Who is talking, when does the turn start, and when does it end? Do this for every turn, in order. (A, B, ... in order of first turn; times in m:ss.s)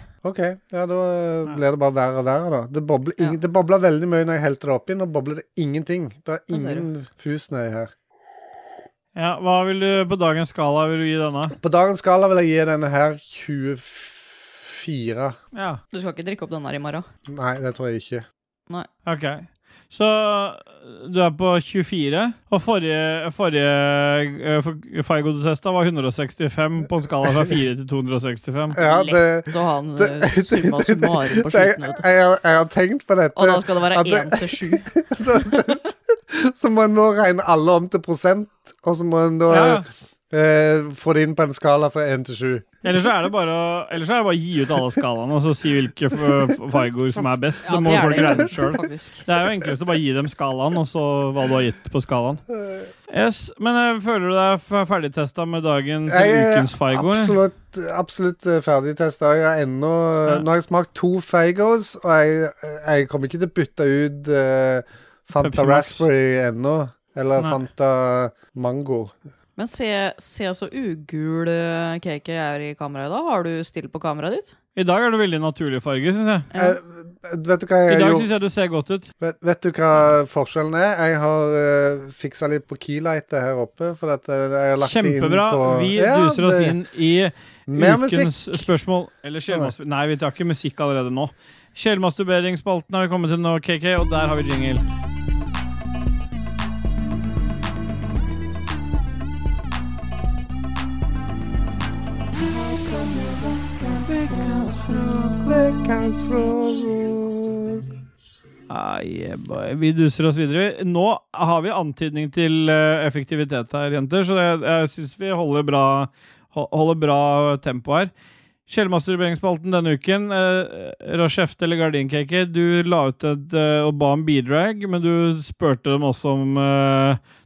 0:00.2-0:07.9 A
0:06.5-0:06.9 B
0:09.2-0:11.5 C
0:11.6-0:15.4 A
0:15.5-0:15.8 C
0:15.9-0:17.0 B
0:17.3-0:18.2 A
0:19.0-0:28.8 C
0:27.2-0:27.5 A
0:28.7-0:42.7 A
0:28.8-0:32.0 B
0:33.4-0:34.9 B
0:39.5-0:39.8 C
0:42.8-0:52.4 C
0:47.6-0:49.2 B
0:47.9-0:48.4 A
0:52.6-0:52.9 A
0:53.1-0:57.4 C
0:56.1-1:09.1 A
1:05.4-1:06.0 C
1:09.6-1:14.5 B
1:14.8-1:16.5 C
1:16.5-1:16.8 B
1:16.5-1:18.3 A
1:17.9-1:19.1 C
1:19.2-1:26.8 A
1:24.8-1:34.8 C
1:27.7-1:28.7 A
1:42.4-1:47.9 A
1:48.7-1:58.1 C
1:58.7-2:07.2 C